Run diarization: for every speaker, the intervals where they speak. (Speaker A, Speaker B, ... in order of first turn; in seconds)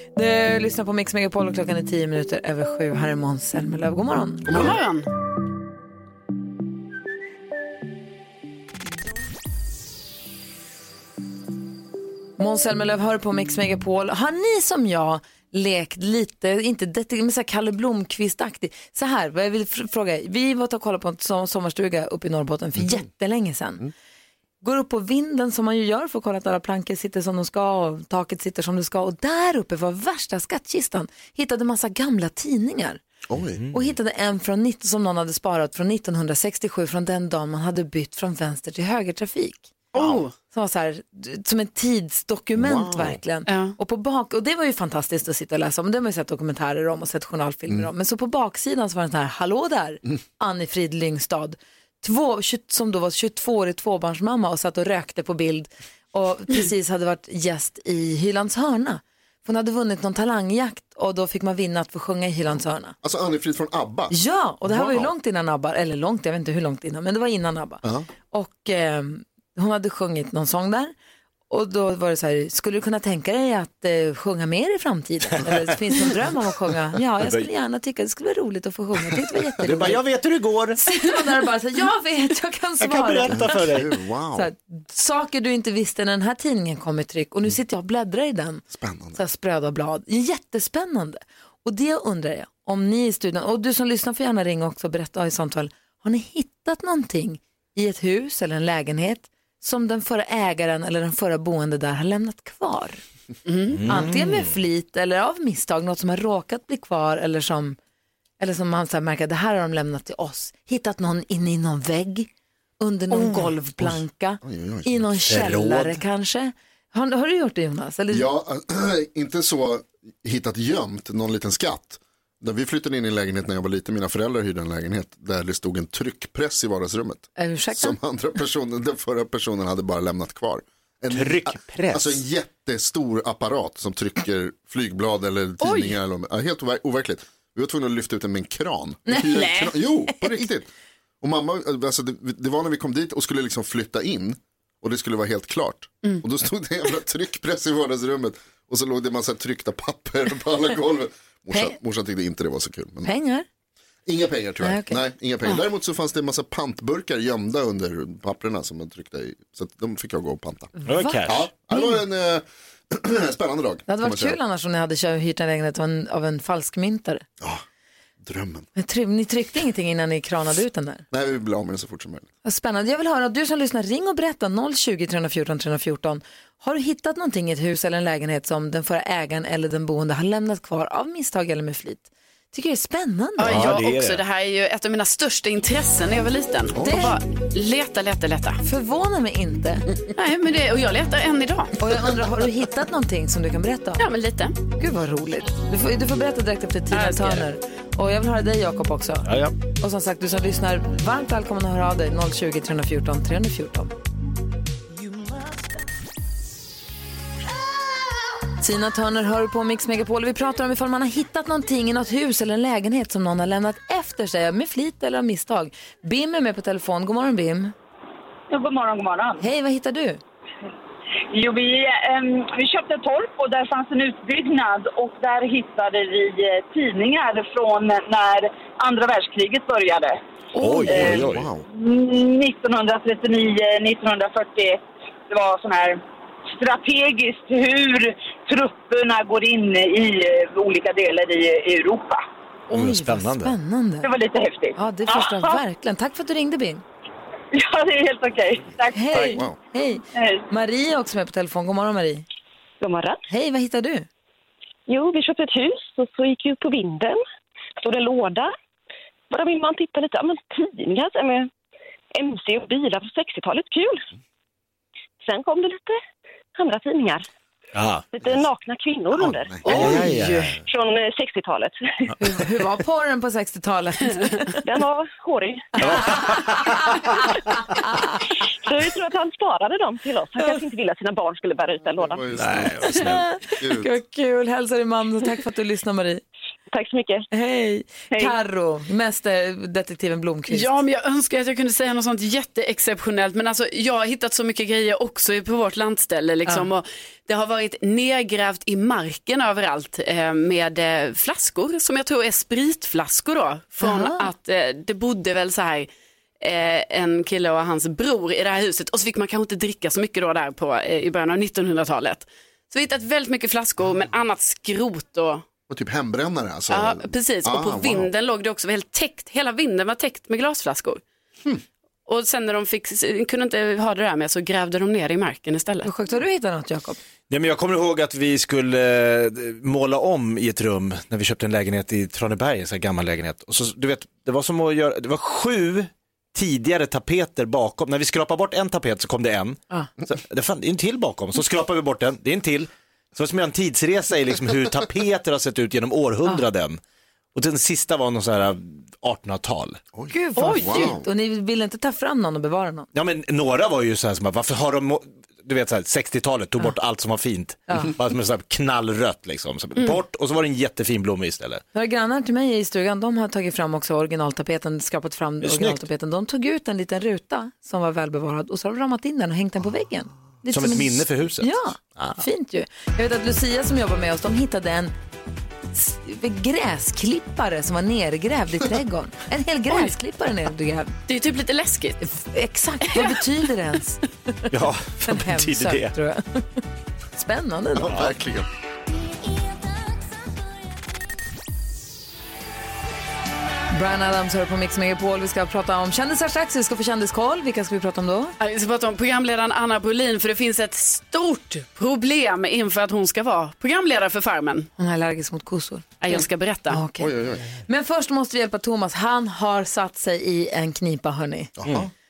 Speaker A: 0.1-4.5, 12.4-23.9, 24.6-33.0, 33.7-39.8, 40.5-63.0, 64.1-70.9, 71.5-80.0, 80.8-83.6, 84.3-103.0, 103.9-107.8, 108.4-112.3, 112.8-118.3, 127.4-128.0, 139.1-140.4, 151.5-151.8, 153.0-153.5, 154.6-155.0, 160.8-162.0, 163.9-167.2, 168.8-171.1, 172.4-183.6, 186.8-187.2, 188.6-189.9, 191.8-194.0, 194.8-203.9, 208.6-217.7, 219.4-220.2, 242.7-244.1, 244.8-246.8, 248.9-252.2, 253.3-254.1, 269.7-270.1, 272.2-274.6, 283.0-286.2, 287.3-290.7, 303.8-304.3, 325.8-327.0, 350.1-352.9, 361.7-374.9, 375.7-380.9, 382.0-384.5, 385.1-386.6, 387.2-388.1, 393.7-398.4, 404.8-407.1, 407.7-411.5
Speaker B: 4.5-4.8, 22.8-23.0, 33.3-33.6, 39.9-40.2, 42.6-43.2, 63.0-65.1, 83.3-84.5, 88.7-89.2, 114.4-115.5, 118.1-140.7, 141.2-153.1, 154.1-164.4, 168.2-168.7, 171.1-172.3, 186.7-187.1, 230.6-231.7, 249.2-249.6, 269.1-269.8, 282.0-283.9, 315.7-318.1, 349.9-351.1, 387.7-388.5, 407.0-407.6, 411.6-411.9
Speaker C: 4.5-5.1, 39.9-40.3, 43.5-43.8, 103.5-103.8, 135.6-135.9, 183.4-188.6, 190.2-191.8, 194.0-194.6, 196.9-197.5, 269.7-270.3, 290.5-305.9, 306.4-315.4, 316.7-321.0, 322.1-325.9, 350.4-350.9, 381.1-382.0, 382.9-383.2, 398.4-404.7, 406.0-406.8
Speaker D: 33.5-33.8, 77.2-77.5, 79.6-80.8, 82.8-83.9, 103.7-104.5, 115.3-116.0, 131.1-132.2, 160.8-161.5, 183.4-184.2, 199.3-199.5, 230.6-231.5, 242.7-243.6, 267.8-268.1, 269.7-270.6, 275.8-277.0, 282.3-283.2, 327.3-346.8, 347.4-349.8, 352.9-361.6, 365.4-365.8, 370.5-372.2, 384.5-385.9
Speaker E: 218.5-219.5, 221.3-230.2, 230.9-236.0, 236.5-242.2, 244.0-245.4, 247.5-249.3, 250.2-250.4
Speaker F: 252.8-253.2, 254.9-257.2, 257.8-258.5, 259.3-261.5, 262.2-264.0, 265.2-266.0, 266.6-267.2, 268.1-269.7, 270.6-271.8, 274.6-275.7, 278.6-282.2, 286.7-287.3, 288.1-288.4